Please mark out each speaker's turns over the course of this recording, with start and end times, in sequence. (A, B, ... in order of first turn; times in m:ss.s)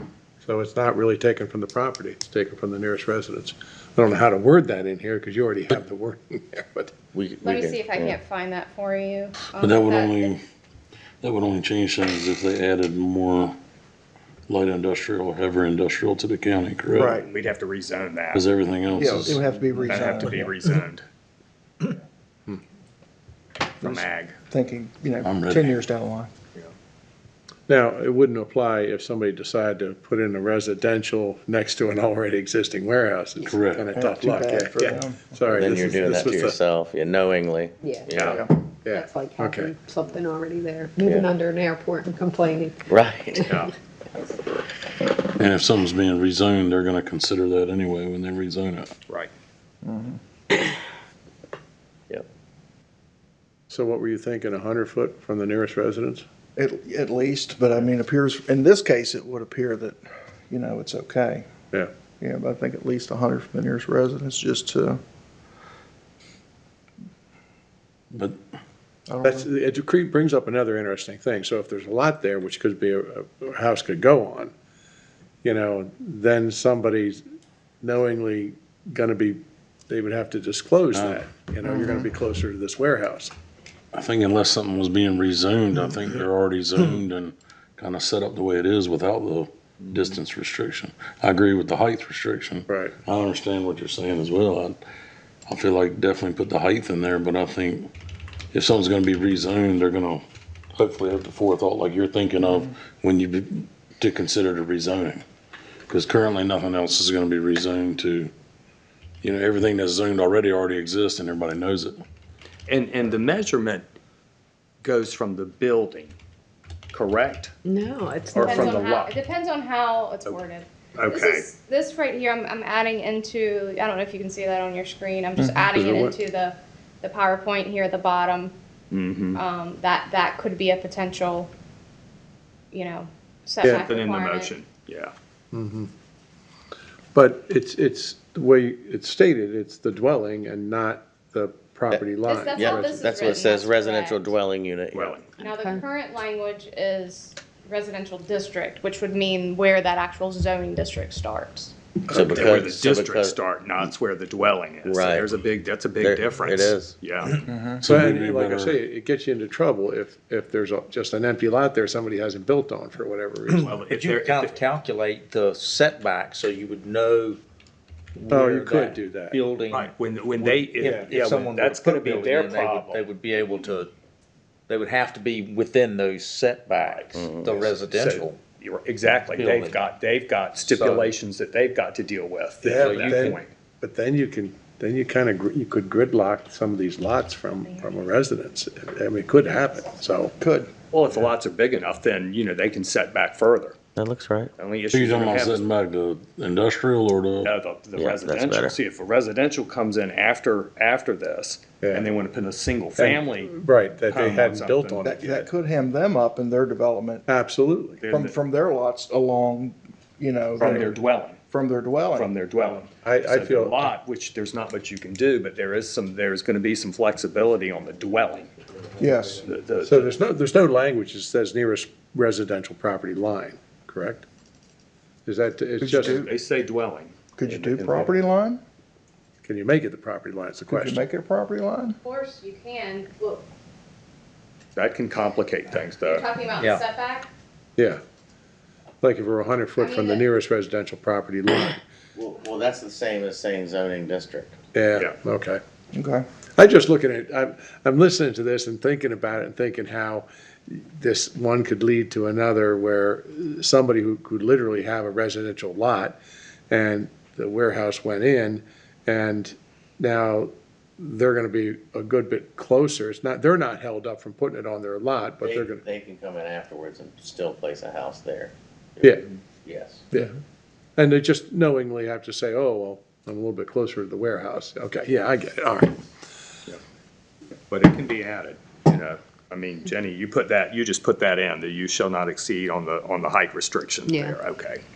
0:00.4-0:07.0 A
0:07.1-0:08.2 B
0:07.4-0:10.3 C
0:09.5-0:10.4 D
0:11.2-0:13.6 D
0:14.5-0:17.2 D
0:17.0-0:17.3 E
0:17.2-0:18.4 F
0:18.3-0:19.5 D
0:18.9-0:20.6 E
0:19.3-0:21.0 F
0:23.8-0:24.4 F
0:23.8-0:26.3 E
0:25.2-0:25.8 D
0:27.7-0:36.6 A
0:33.4-0:34.0 D
0:33.9-0:35.3 E
0:35.5-0:38.4 B
0:37.8-0:38.1 G
0:38.1-0:38.4 F
0:38.8-0:39.7 A
0:38.8-0:43.7 G
0:41.0-0:41.3 B
0:42.9-0:43.4 B
0:45.4-0:48.9 D
0:49.8-0:50.2 E
0:53.7-0:56.2 A
0:56.6-1:01.5 E
1:02.2-1:05.0 E
1:08.1-1:08.4 D
1:09.1-1:09.5 E
1:09.2-1:14.5 A
1:15.4-1:17.2 A
1:17.8-1:23.3 A
1:20.9-1:21.2 D
1:21.6-1:22.1 E
1:23.9-1:34.8 D
1:32.7-1:32.9 A
1:35.5-1:37.9 D
1:38.5-1:40.2 D
1:40.8-1:45.2 D
1:45.9-1:48.3 D
1:49.2-1:52.0 D
1:52.7-1:53.8 F
1:54.8-1:56.1 F
1:56.9-1:57.5 F
1:57.6-1:58.7 G
1:58.3-1:59.2 F
1:58.4-2:08.5 C
2:01.0-2:01.5 F
2:05.4-2:05.6 E
2:05.6-2:06.2 A
2:08.9-2:09.4 F
2:09.3-2:11.5 C
2:12.7-2:14.5 C
2:13.6-2:13.9 A
2:13.7-2:15.1 F
2:15.5-2:15.9 A
2:17.1-2:23.4 A
2:22.2-2:24.3 C
2:22.5-2:25.2 B
2:24.9-2:25.3 F
2:25.4-2:31.8 C
2:25.4-2:25.9 G
2:32.1-2:33.4 B
2:32.1-2:37.5 F
2:32.1-2:32.4 A
2:34.8-2:35.4 B
2:36.0-2:36.9 B
2:37.5-2:37.8 E
2:37.8-2:38.8 D
2:37.8-2:43.7 A
2:43.6-2:47.4 H
2:43.6-2:44.6 F
2:48.2-2:49.9 H
2:48.3-2:49.5 A
2:49.7-2:53.0 F
2:50.5-2:53.9 H
2:50.5-2:51.2 A
2:54.7-2:58.4 H
2:56.8-3:03.5 F
2:57.2-2:57.5 B
2:59.4-2:59.7 H
3:00.6-3:01.1 H
3:02.6-3:10.3 A
3:02.8-3:03.3 H
3:10.4-3:10.7 E
3:10.9-3:13.8 F
3:14.0-3:14.5 B
3:14.6-3:15.7 F
3:14.9-3:17.5 D
3:17.4-3:23.5 F
3:18.0-3:18.8 B
3:21.8-3:22.1 A
3:23.0-3:25.5 A
3:24.1-3:25.1 F
3:25.0-3:27.2 E
3:27.3-3:28.0 A
3:28.0-3:28.3 F
3:28.1-3:30.9 E
3:30.6-3:31.4 F
3:31.5-3:32.3 E
3:32.1-3:38.5 F
3:33.0-3:33.9 A
3:39.0-3:39.4 E
3:39.4-3:40.1 F
3:39.8-3:44.2 A
3:45.2-3:46.3 A
3:45.8-3:46.3 E
3:46.0-3:48.2 F
3:47.4-3:48.6 E
3:49.4-3:51.1 A
3:50.7-3:52.0 E
3:52.0-3:53.5 C
3:54.8-3:56.3 F
3:56.0-3:57.3 C
3:56.5-3:56.8 H
3:59.0-4:01.8 A
3:59.8-4:00.3 C
4:02.2-4:04.5 B
4:04.7-4:05.6 A
4:05.9-4:06.2 E
4:06.6-4:16.2 A
4:16.7-4:25.8 A
4:25.4-4:30.1 B
4:29.0-4:29.3 A
4:31.0-4:36.0 A
4:37.7-4:44.8 F
4:44.1-4:44.4 G